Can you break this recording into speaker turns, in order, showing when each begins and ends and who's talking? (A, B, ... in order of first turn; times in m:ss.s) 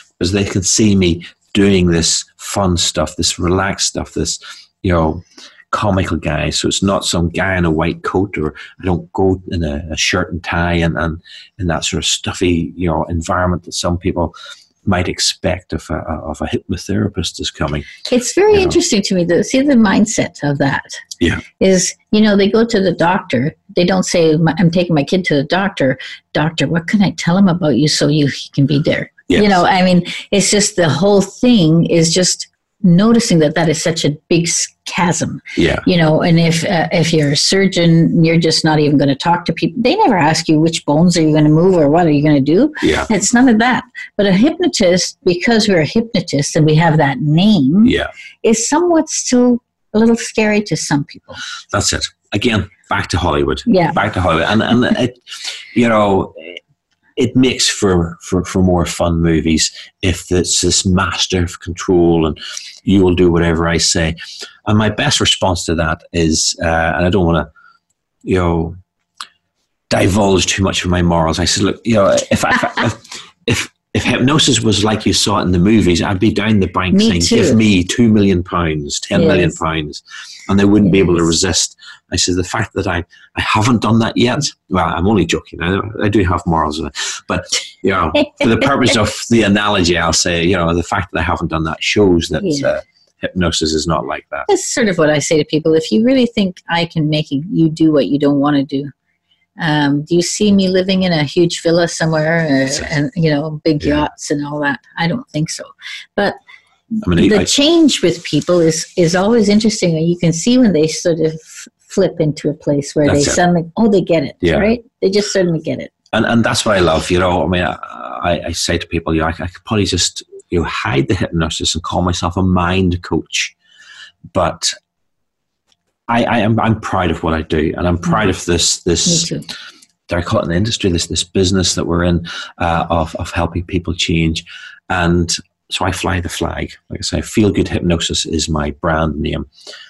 0:00.2-0:14.3 A
0:14.8-0:17.9 A
0:18.0-0:21.0 B
0:18.5-0:18.8 A
0:21.6-0:51.4 B
0:29.3-0:29.6 A
0:35.6-0:35.9 A
0:42.8-0:43.1 A
0:47.8-0:48.1 A
0:51.7-0:56.6 A
0:53.7-0:54.0 B
0:57.2-1:07.5 A
1:08.2-1:08.8 A
1:09.9-1:34.5 A
1:16.9-1:17.6 B
1:19.2-1:19.6 B
1:32.4-1:32.7 B
1:34.5-1:38.9 B
1:39.6-1:46.4 B
1:47.0-1:47.5 A
1:47.1-1:55.9 B
1:53.0-1:53.4 A
1:54.4-1:54.7 A
1:56.1-2:03.6 A
2:04.3-2:04.8 A
2:06.1-2:09.3 A
2:09.1-2:09.5 B
2:10.1-2:19.5 A